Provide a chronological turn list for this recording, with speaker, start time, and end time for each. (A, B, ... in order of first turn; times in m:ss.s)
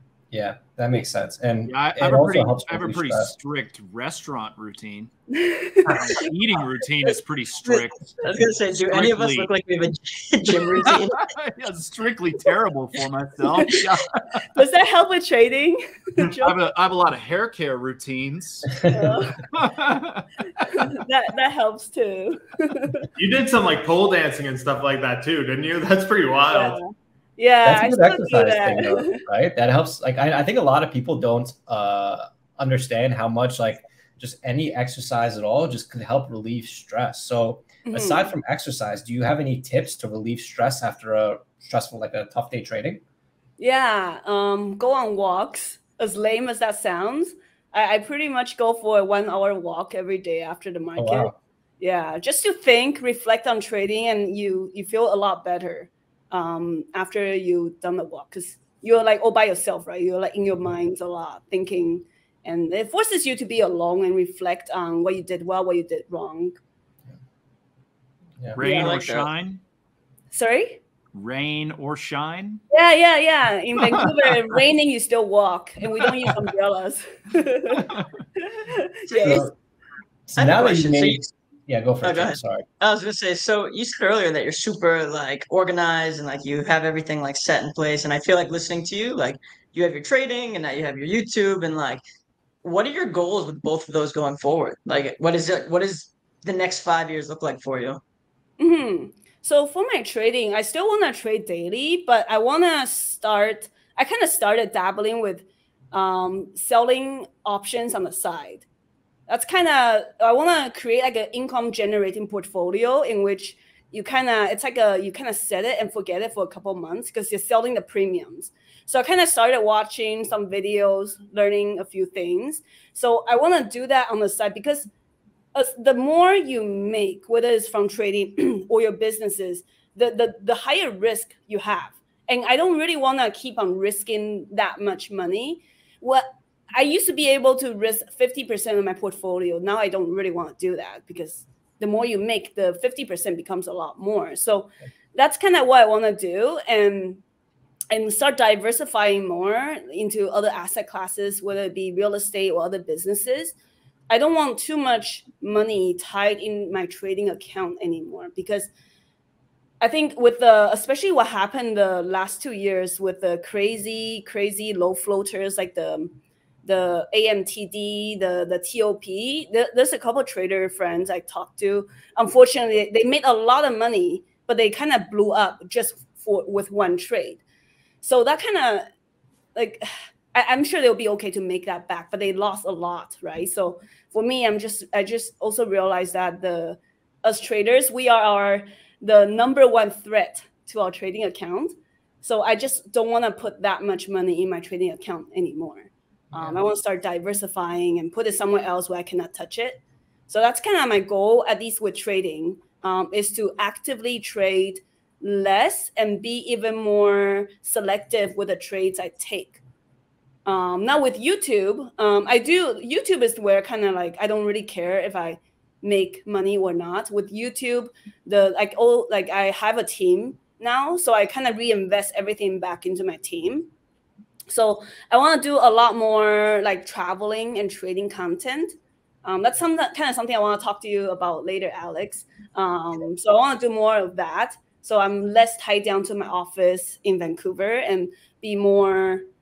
0:00.3-0:03.3 A
0:01.7-0:05.1 B
0:05.3-0:06.3 C
0:05.9-0:09.5 B
0:07.7-0:11.3 D
0:10.8-0:14.4 B
0:13.5-0:13.8 C
0:14.5-0:16.6 C
0:16.4-0:18.8 B
0:18.8-0:19.2 A
0:18.8-0:19.4 C
0:19.5-0:20.3 B
0:20.6-0:23.1 C
0:23.2-0:26.8 E
0:26.5-0:29.2 C
0:27.6-0:43.0 A
0:37.8-0:38.3 C
0:43.6-1:06.6 C
0:51.0-0:51.3 A
1:08.5-1:09.6 B
1:08.6-1:09.0 C
1:08.6-1:09.3 D
1:10.3-1:10.8 C
1:11.1-1:12.6 B
1:12.7-1:17.9 C
1:13.8-1:14.3 B
1:16.0-1:16.4 B
1:17.8-1:18.1 B
1:18.4-1:19.4 C
1:19.1-1:19.5 D
1:19.2-1:19.5 A
1:20.3-1:22.6 A
1:20.4-1:21.3 D
1:22.0-1:32.0 D
1:32.6-1:38.0 D
1:38.6-1:48.6 C
1:49.3-2:04.9 C
2:05.5-2:27.2 C
2:27.9-2:33.5 C
2:34.1-2:38.7 C
2:39.8-2:46.1 C
2:46.6-2:57.4 C
2:58.0-2:58.9 C
2:59.5-3:29.6 C
3:30.4-3:43.7 C
3:44.5-3:59.2 C